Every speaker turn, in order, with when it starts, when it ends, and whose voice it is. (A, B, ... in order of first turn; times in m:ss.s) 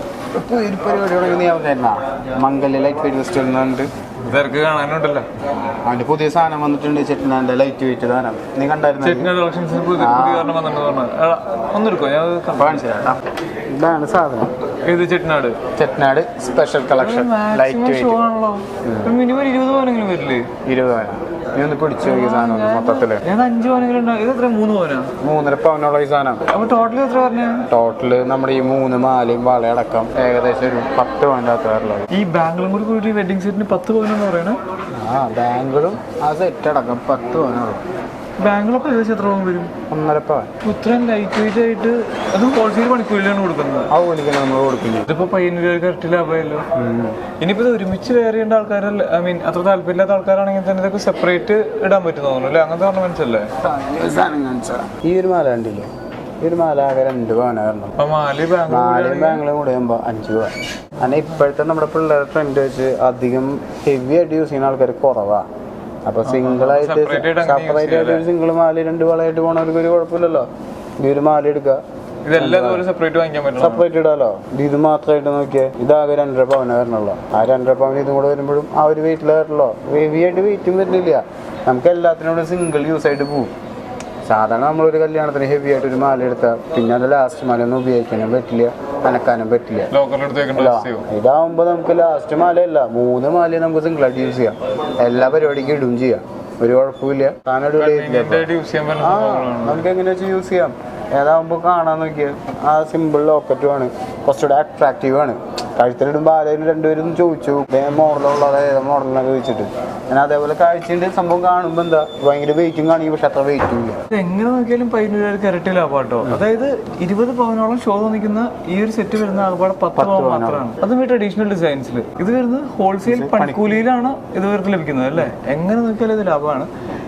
0:00.3-0:03.9 A
0:04.3-0:05.3 B
0:05.8-0:09.3 A
0:09.0-0:12.8 B
0:10.0-0:10.6 A
0:12.6-0:14.5 A
0:14.8-0:15.6 B
0:15.7-0:18.2 A
0:17.0-0:20.5 B
0:18.8-0:19.2 A
0:20.6-0:23.3 A
0:22.0-0:25.1 B
0:25.2-0:26.5 A
0:26.5-0:27.7 B
0:27.7-0:32.1 A
0:32.1-0:34.6 B
0:35.0-0:37.8 A
0:38.4-0:39.7 B
0:39.9-0:40.5 A
0:40.6-0:43.9 B
0:43.9-0:45.1 A
0:45.1-0:46.6 B
0:46.8-0:47.2 A
0:47.4-0:53.5 B
0:53.6-0:55.9 A
0:56.4-0:58.0 A
0:58.0-0:59.4 B
0:58.7-1:05.5 A
1:01.0-1:01.4 B
1:06.0-1:10.5 A
1:06.2-1:08.3 B
1:11.0-1:11.8 A
1:12.2-1:13.9 B
1:12.3-1:12.8 A
1:13.6-1:23.5 A
1:24.2-1:29.9 A
1:29.9-1:31.1 B
1:30.5-1:54.0 A
1:37.8-1:39.9 B
1:54.1-2:06.7 B
2:00.0-2:00.7 A
2:03.0-2:03.8 A